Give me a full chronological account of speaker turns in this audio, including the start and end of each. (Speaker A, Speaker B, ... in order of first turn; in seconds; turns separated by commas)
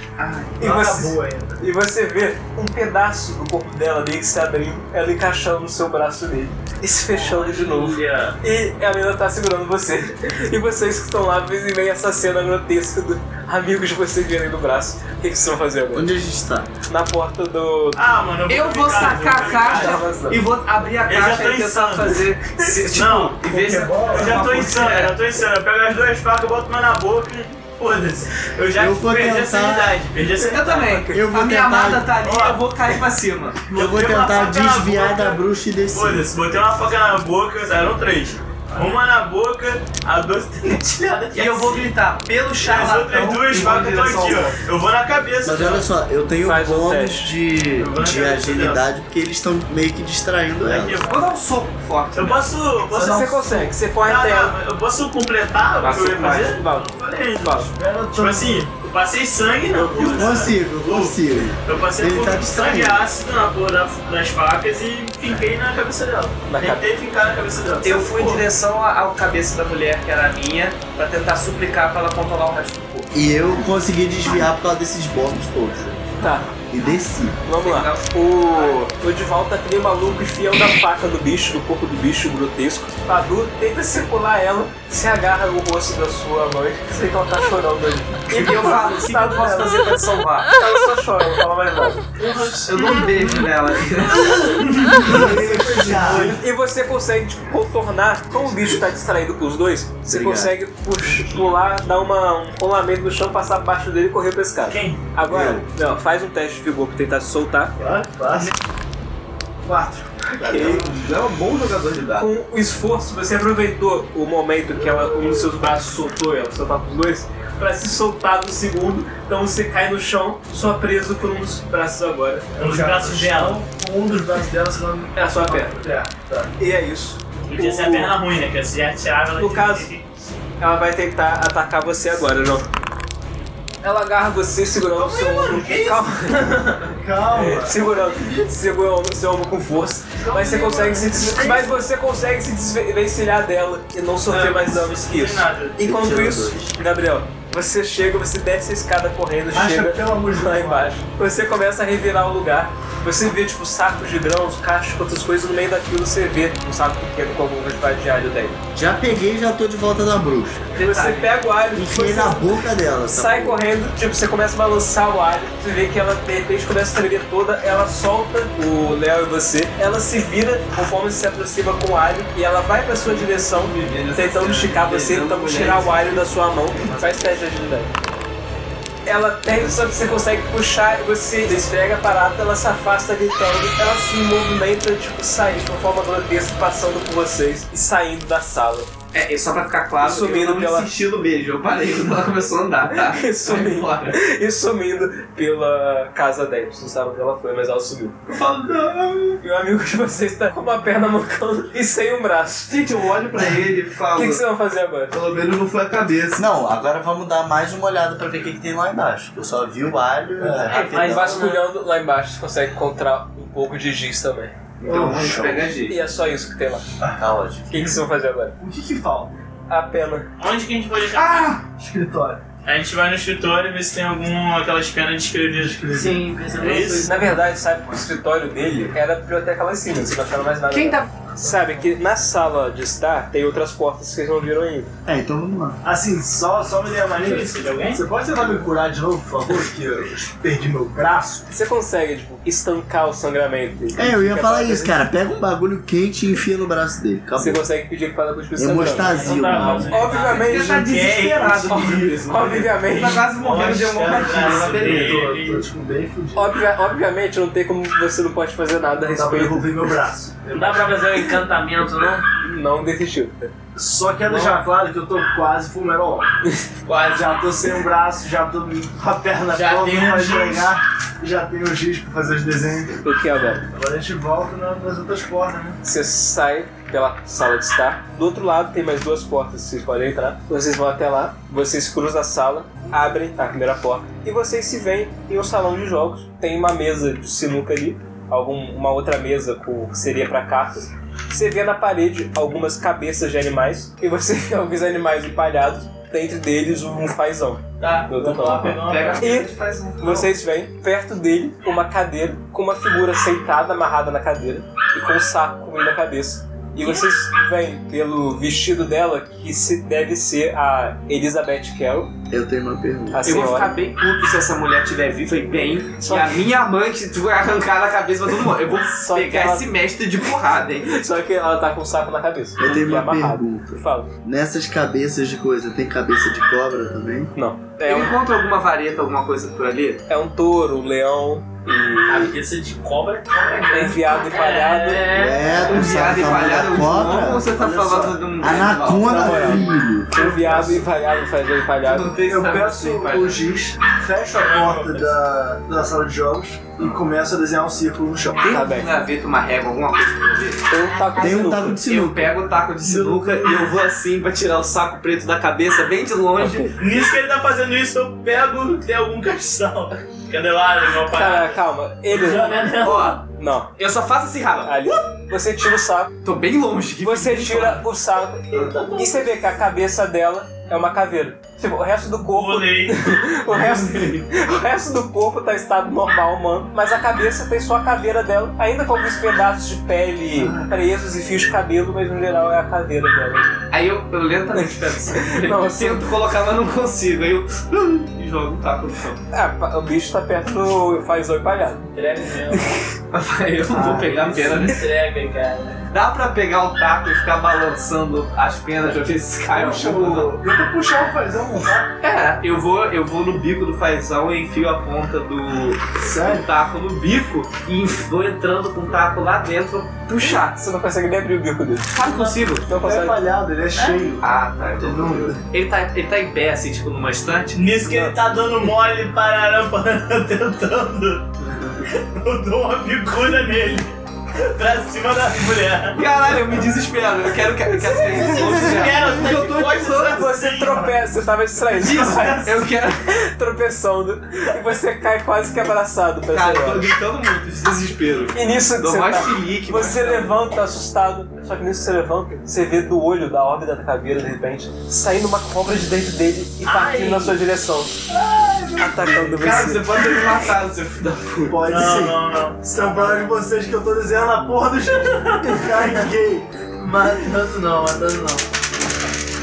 Speaker A: 0.2-0.6, Speaker B: 0.6-16.1, Speaker C: 0.6-1.7, Speaker D: 7.1-8.4, Speaker E: 15.9-16.7, Speaker B: 16.9-18.0, Speaker F: 17.9-20.0, Speaker A: 18.5-25.2, Speaker B: 19.5-20.4, Speaker F: 21.0-23.4, Speaker C: 23.4-24.5, Speaker F: 24.0-30.9, Speaker E: 28.8-30.1, Speaker A: 30.4-33.6, Speaker B: 30.4-31.2, Speaker E: 31.1-32.1, Speaker F: 32.2-32.6, Speaker F: 33.7-41.9, Speaker E: 33.7-36.3, Speaker A: 41.3-44.6, Speaker F: 42.6-45.9, Speaker E: 45.4-51.1, Speaker B: 46.4-47.3, Speaker F: 47.8-48.9, Speaker F: 50.6-51.3, Speaker A: 51.0-52.5, Speaker F: 52.1-68.4, Speaker B: 52.9-54.6, Speaker A: 55.8-56.6, Speaker B: 56.2-57.7, Speaker C: 57.7-58.7, Speaker E: 60.0-63.0, Speaker B: 66.5-66.9, Speaker A: 67.8-73.1, Speaker E: 73.1-76.0, Speaker B: 76.2-76.5, Speaker E: 76.7-77.4, Speaker B: 77.5-92.1, Speaker A: 77.6-78.8, Speaker A: 88.3-90.5, Speaker A: 92.6-94.5, Speaker F: 94.4-95.1, Speaker C: 95.0-96.4, Speaker E: 95.0-96.4, Speaker B: 96.1-107.8, Speaker E: 100.1-100.5, Speaker F: 104.7-105.0, Speaker E: 105.3-105.7, Speaker C: 107.8-108.5, Speaker C: 109.6-110.2, Speaker B: 110.3-110.9, Speaker A: 110.5-112.3, Speaker B: 112.2-122.5, Speaker F: 122.6-123.6, Speaker C: 122.6-126.5, Speaker B: 125.2-125.8, Speaker B: 126.6-128.2, Speaker F: 127.4-130.0, Speaker B: 129.3-129.9, Speaker B: 130.6-132.7, Speaker B: 133.8-136.6, Speaker F: 134.9-136.9, Speaker C: 136.9-138.5, Speaker B: 137.3-158.6, Speaker C: 140.2-141.8, Speaker F: 144.3-145.8, Speaker E: 145.8-146.8, Speaker C: 149.5-150.9, Speaker E: 158.7-160.7, Speaker A: 160.8-161.4, Speaker B: 160.8-177.9, Speaker E: 161.7-163.6, Speaker A: 172.9-177.2, Speaker B: 179.1-188.9, Speaker A: 189.1-194.2, Speaker B: 190.0-190.9, Speaker B: 192.9-198.2, Speaker A: 198.3-199.4, Speaker B: 199.4-202.8, Speaker A: 202.7-204.4, Speaker B: 204.1-205.1, Speaker A: 205.1-206.4, Speaker E: 206.4-211.5, Speaker C: 210.4-210.8, Speaker B: 210.7-214.6, Speaker D: 210.7-211.6, Speaker A: 214.8-216.0, Speaker C: 214.8-215.6, Speaker E: 214.9-215.7, Speaker B: 215.9-216.8, Speaker E: 217.2-218.0, Speaker B: 217.7-218.6, Speaker C: 218.6-219.3, Speaker B: 219.7-220.3, Speaker F: 220.4-221.5, Speaker A: 221.1-221.6, Speaker C: 221.8-222.4, Speaker F: 222.7-227.3, Speaker C: 225.8-226.2, Speaker D: 226.0-227.2, Speaker A: 226.6-226.9, Speaker B: 227.0-234.9, Speaker A: 230.7-231.1, Speaker E: 235.1-235.8, Speaker C: 235.8-241.5, Speaker F: 237.1-238.0, Speaker D: 237.2-237.8, Speaker B: 241.5-245.0, Speaker E: 243.9-247.7, Speaker B: 247.4-250.9, Speaker E: 248.6-250.1, Speaker D: 249.0-250.7, Speaker F: 249.7-252.2, Speaker A: 250.2-255.2, Speaker B: 251.7-253.3, Speaker F: 253.3-255.7, Speaker C: 254.0-256.5, Speaker B: 256.4-259.9, Speaker C: 259.1-261.0, Speaker D: 260.5-262.3, Speaker B: 262.4-263.5, Speaker C: 263.8-266.3, Speaker C: 266.9-273.0, Speaker F: 269.5-270.7, Speaker B: 273.0-273.7, Speaker C: 273.7-275.8, Speaker B: 275.8-312.1, Speaker F: 297.8-299.3, Speaker A: 298.8-300.3, Speaker E: 312.3-313.3, Speaker B: 313.1-313.8, Speaker A: 313.2-321.0, Speaker B: 316.0-316.4, Speaker B: 318.9-319.7, Speaker B: 320.9-324.1, Speaker E: 322.6-327.3, Speaker B: 327.4-328.2, Speaker A: 327.9-330.0, Speaker B: 330.1-332.4, Speaker D: 332.1-335.9, Speaker B: 333.7-335.1, Speaker E: 335.1-337.5, Speaker A: 335.6-339.3, Speaker C: 337.6-338.3, Speaker E: 338.4-340.1, Speaker B: 339.1-342.2, Speaker C: 339.1-339.6, Speaker C: 340.1-340.8, Speaker A: 341.8-343.5, Speaker C: 342.2-348.6, Speaker F: 344.4-345.1, Speaker B: 348.4-348.9, Speaker A: 348.4-350.7, Speaker B: 350.7-351.8, Speaker E: 351.1-352.4, Speaker A: 351.8-356.7, Speaker C: 352.9-353.2, Speaker B: 356.4-356.8, Speaker F: 356.8-361.6, Speaker B: 361.1-362.6, Speaker D: 362.1-363.2, Speaker F: 362.2-362.6, Speaker A: 362.6-363.2, Speaker B: 363.4-363.7, Speaker A: 363.8-364.8, Speaker B: 364.6-366.1, Speaker A: 366.2-367.9, Speaker B: 367.0-383.5, Speaker A: 368.5-368.8, Speaker D: 368.6-369.0, Speaker F: 372.3-373.3, Speaker F: 373.9-374.2, Speaker A: 383.7-389.2, Speaker B: 384.5-386.1, Speaker B: 389.3-391.9, Speaker D: 391.9-392.7, Speaker B: 392.5-392.8, Speaker A: 393.1-394.8, Speaker C: 393.7-394.7, Speaker D: 394.2-395.8, Speaker A: 395.9-400.4, Speaker C: 399.5-401.9, Speaker A: 402.0-410.6, Speaker C: 406.0-406.5, Speaker B: 410.1-411.9, Speaker A: 411.9-412.7, Speaker C: 412.0-414.2, Speaker B: 412.7-413.2, Speaker A: 414.2-417.6, Speaker C: 414.8-415.4, Speaker F: 417.5-421.3, Speaker B: 417.8-418.1, Speaker A: 421.4-421.8, Speaker F: 421.9-426.0, Speaker A: 425.9-430.3, Speaker B: 427.9-428.8, Speaker F: 428.1-430.9, Speaker B: 430.1-436.9, Speaker A: 431.8-433.1, Speaker A: 436.3-440.4, Speaker B: 438.3-447.9, Speaker D: 446.8-447.3, Speaker C: 448.1-449.4, Speaker B: 448.8-450.1, Speaker A: 449.1-451.6, Speaker C: 451.5-456.5, Speaker F: 451.6-453.3, Speaker F: 456.8-457.4, Speaker D: 457.0-458.4